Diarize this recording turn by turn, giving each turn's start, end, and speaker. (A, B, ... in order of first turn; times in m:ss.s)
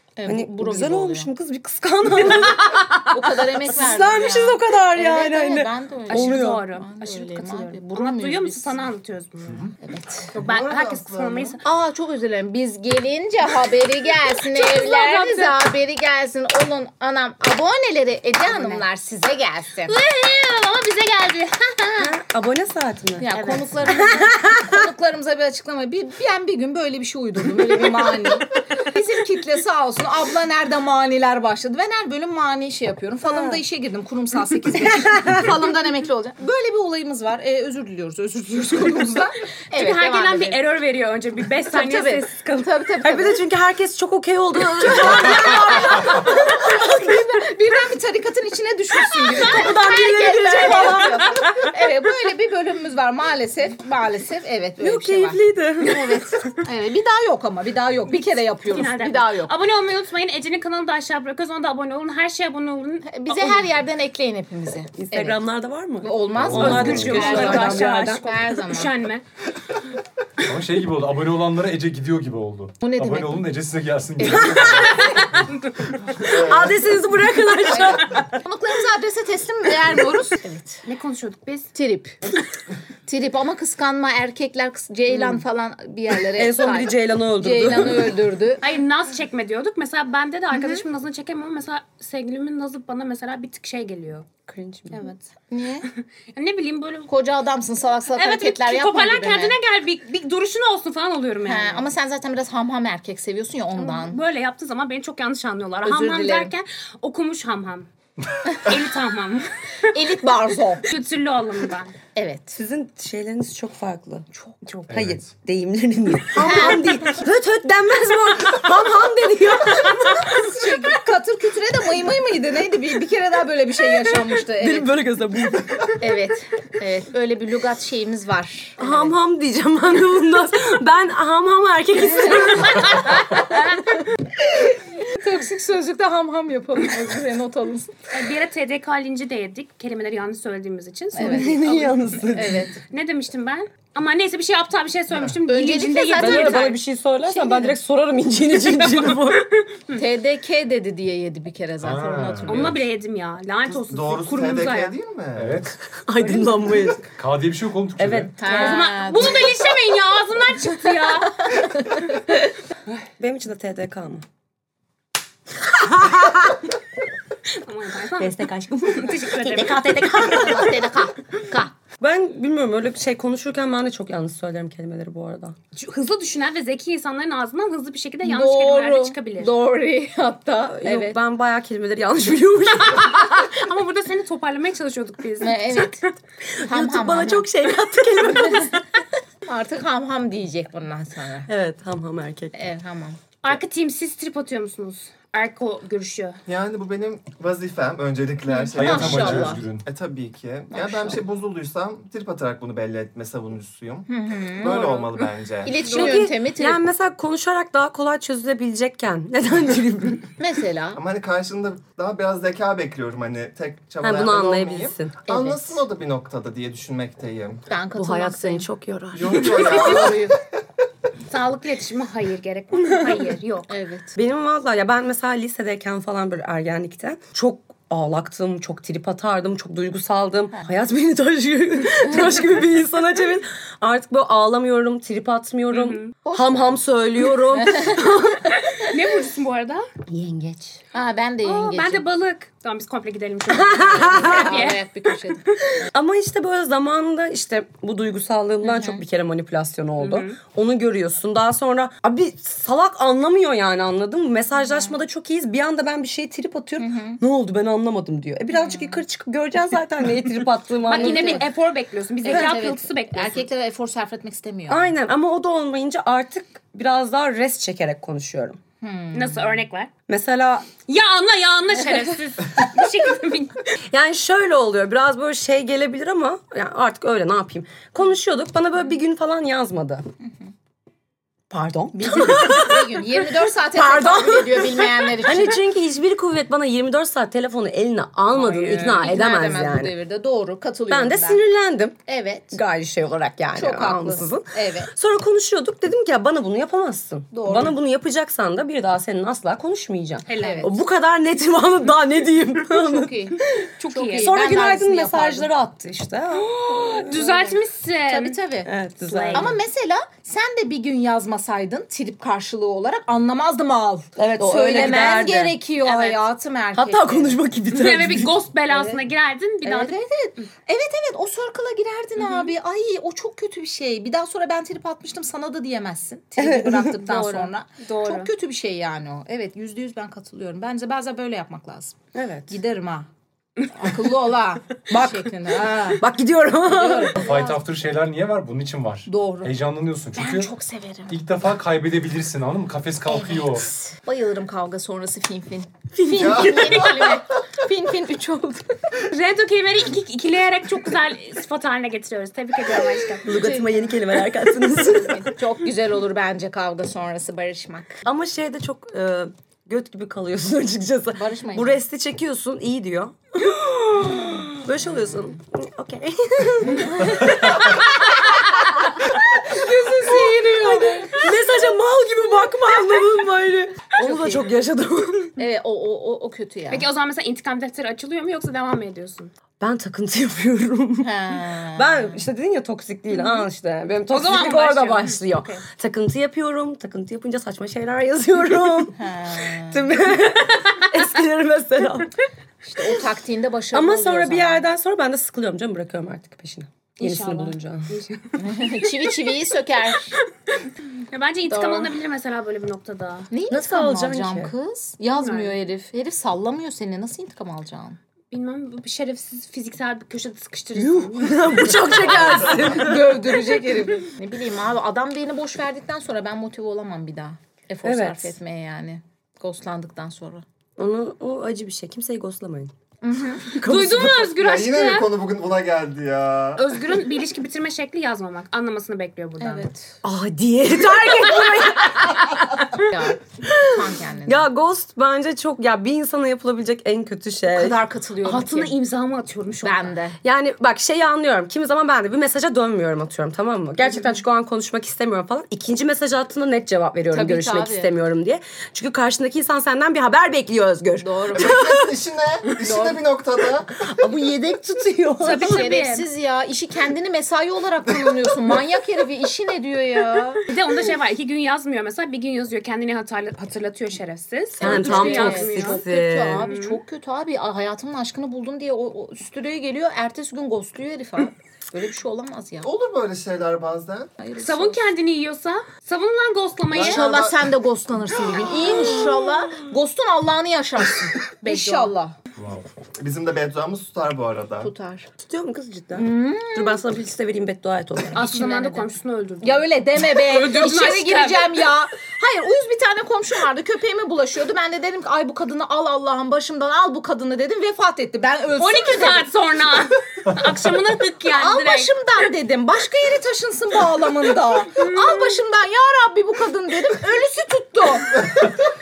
0:00.2-0:01.3 A
0:00.3-0:06.6 B
0:02.2-0:08.9 A
0:06.1-0:09.7 C
0:09.6-0:10.4 A
0:10.3-0:11.6 D
0:10.4-0:11.6 C
0:11.6-0:20.0 A
0:14.4-0:15.6 C
0:18.4-0:18.8 C
0:19.9-0:22.1 C
0:22.0-0:24.8 B
0:23.2-0:40.6 A
0:23.3-0:23.7 C
0:33.3-0:33.6 B
0:35.0-0:35.4 B
0:39.8-0:42.6 C
0:41.7-0:43.4 A
0:43.0-0:47.2 B
0:44.8-0:59.5 A
0:49.3-0:51.7 B
0:49.5-0:51.1 C
0:54.8-0:56.6 B
0:58.7-1:03.7 C
1:03.1-1:05.4 A
1:05.0-1:08.2 B
1:06.0-1:08.9 A
1:06.4-1:07.4 E
1:06.5-1:09.2 C
1:10.4-1:15.4 E
1:12.8-1:13.5 A
1:14.2-1:15.1 B
1:14.3-1:15.2 A
1:14.8-1:15.5 C
1:16.2-1:16.9 D
1:16.3-1:18.3 B
1:17.7-1:20.8 A
1:20.9-1:21.7 C
1:21.7-1:22.2 A
1:23.1-1:28.6 A
1:26.3-1:28.2 B
1:28.6-1:34.3 C
1:30.5-1:30.8 A
1:34.5-1:35.1 B
1:34.9-1:35.2 C
1:35.5-1:35.9 A
1:35.9-1:37.1 C
1:37.1-1:39.6 A
1:38.2-1:41.9 C
1:41.4-1:44.2 A
1:43.8-1:47.9 C
1:45.8-1:46.5 A
1:48.5-1:49.5 C
1:49.9-1:50.9 A
1:50.8-1:52.0 C
1:52.2-1:52.6 A
1:52.6-1:54.3 B
1:54.9-1:55.3 E
1:54.9-2:00.6 B
1:56.4-1:56.9 A
1:59.9-2:04.9 A
2:04.5-2:06.0 B
2:06.0-2:09.1 A
2:08.8-2:13.0 B
2:12.1-2:13.8 A
2:12.7-2:13.4 C
2:14.9-2:18.0 A
2:18.1-2:26.8 C
2:21.2-2:21.5 A
2:21.2-2:22.7 B
2:22.3-2:22.8 A
2:25.5-2:27.8 A
2:26.2-2:29.5 B
2:29.2-2:30.0 C
2:29.9-2:32.8 A
2:31.8-2:32.8 E
2:32.5-2:35.0 C
2:33.7-2:35.6 D
2:35.4-2:35.8 E
2:35.9-2:37.0 B
2:36.2-2:36.9 C
2:37.1-2:38.4 E
2:38.0-2:38.8 B
2:38.4-2:39.6 A
2:38.5-2:41.6 C
2:41.4-2:42.4 A
2:43.2-2:44.2 B
2:45.7-2:46.6 B
2:47.5-2:48.3 C
2:48.2-2:50.8 B
2:48.9-2:49.9 C
2:49.7-2:51.7 A
2:52.0-2:55.6 B
2:55.7-2:59.5 C
2:58.2-3:01.2 A
3:00.8-3:03.4 B
3:02.8-3:05.8 C
3:05.4-3:06.1 A
3:06.4-3:08.8 B
3:06.6-3:07.5 A
3:08.5-3:08.8 A
3:09.5-3:11.5 A
3:11.5-3:12.6 B
3:12.6-3:13.2 A
3:13.4-3:16.4 C
3:16.5-3:25.8 D
3:18.6-3:19.6 A
3:18.8-3:19.8 E
3:20.7-3:21.2 A
3:24.1-3:25.0 A
3:24.6-3:25.1 C
3:25.6-3:26.8 A
3:25.8-3:30.3 B
3:30.4-3:31.0 A
3:31.0-3:37.6 D
3:34.0-3:35.5 B
3:35.3-3:35.6 A
3:37.7-3:38.7 A
3:38.0-3:40.1 B
3:39.1-3:40.4 D
3:39.3-3:40.4 A
3:41.3-3:43.7 C
3:43.7-3:44.2 A
3:44.2-3:58.8 B
3:55.7-3:56.1 C
3:56.2-3:56.8 A
3:57.5-3:58.1 A
3:58.8-3:59.9 C
4:00.1-4:00.8 B
4:00.9-4:02.0 A
4:01.4-4:04.8 C
4:03.5-4:04.8 B
4:03.9-4:05.8 A
4:05.8-4:21.5 B
4:08.7-4:09.0 A
4:10.0-4:10.4 C
4:16.8-4:17.2 A
4:18.5-4:19.0 A
4:20.9-4:23.5 C
4:20.9-4:21.5 A
4:22.2-4:24.9 A
4:24.7-4:28.6 B
4:28.8-4:29.6 A
4:29.1-4:29.9 C
4:30.1-4:30.7 B
4:30.9-4:33.6 C
4:33.9-4:40.0 B
4:41.5-4:43.2 B
4:41.9-4:45.6 A
4:43.7-4:49.9 B
4:48.3-4:51.4 A
4:50.9-4:52.0 B
4:52.1-4:52.6 A
4:52.5-5:06.5 B
4:53.6-4:54.9 A
4:57.3-4:57.8 A
5:00.3-5:00.7 C
5:00.3-5:00.7 A
5:02.7-5:05.5 A
5:03.8-5:04.4 C
5:06.3-5:08.4 C
5:06.9-5:08.7 A
5:08.7-5:09.6 B
5:09.1-5:09.6 C
5:09.3-5:17.4 A
5:14.2-5:15.6 B
5:15.8-5:16.2 C
5:16.8-5:18.4 B
5:17.7-5:20.5 C
5:18.7-5:19.0 A
5:19.6-5:32.0 A
5:22.2-5:22.5 C
5:26.4-5:27.2 B
5:27.1-5:28.3 C
5:32.1-5:32.6 B
5:32.5-5:33.1 A
5:33.7-5:36.0 A
5:34.9-5:37.2 B
5:36.6-5:37.6 A
5:37.2-5:40.5 E
5:39.1-5:39.5 A
5:40.1-5:41.2 A
5:41.1-5:43.7 E
5:43.1-5:48.8 A
5:46.0-5:47.0 B
5:46.2-5:47.1 D
5:49.1-5:53.3 C
5:53.2-5:55.3 B
5:53.3-5:58.0 A
5:58.0-6:07.7 B
6:01.1-6:01.8 A
6:03.9-6:04.6 A
6:06.8-6:08.3 A
6:09.0-6:11.3 A
6:11.1-6:15.3 B
6:14.0-6:14.4 A
6:15.4-6:16.9 A
6:16.7-6:19.3 C
6:19.6-6:32.1 B
6:21.0-6:22.2 A
6:24.1-6:25.6 C
6:29.0-6:29.9 A
6:32.6-6:34.6 A
6:33.7-6:38.0 B
6:37.0-6:38.9 C
6:38.4-6:40.2 A
6:41.1-6:43.3 C
6:41.5-6:42.0 A
6:43.3-6:48.0 A
6:43.5-6:44.5 B
6:45.2-6:45.6 C
6:48.3-6:52.4 C
6:50.8-6:53.6 B
6:52.6-7:00.4 A
6:57.8-6:58.4 B
7:00.8-7:02.7 B
7:03.0-7:03.5 A
7:03.4-7:04.4 B
7:03.6-7:05.1 C
7:04.4-7:06.6 D
7:06.6-7:09.7 C
7:09.4-7:10.0 A
7:10.0-7:12.9 B
7:12.8-7:14.5 A
7:13.4-7:17.8 B
7:17.5-7:18.8 A
7:18.2-7:20.0 C
7:19.6-7:20.2 A
7:20.2-7:31.9 B
7:27.1-7:27.9 A
7:31.0-7:31.6 A
7:31.4-7:33.8 D
7:32.6-7:33.0 A
7:33.8-7:35.7 B
7:35.2-7:36.1 C
7:35.2-7:40.4 A
7:40.5-7:45.8 C
7:44.6-7:46.5 B
7:44.6-7:52.7 A
7:46.4-7:46.8 C
7:52.6-7:54.1 D
7:54.2-7:54.9 A
7:54.4-7:57.2 C
7:56.7-7:57.5 D
7:56.8-8:02.2 A
8:01.4-8:01.9 C
8:02.4-8:02.6 E
8:03.0-8:04.7 D
8:04.6-8:05.1 A
8:05.2-8:08.2 B
8:06.0-8:06.8 A
8:08.1-8:19.3 A
8:08.2-8:11.5 C
8:18.6-8:21.9 C
8:21.3-8:28.6 A
8:24.8-8:25.4 C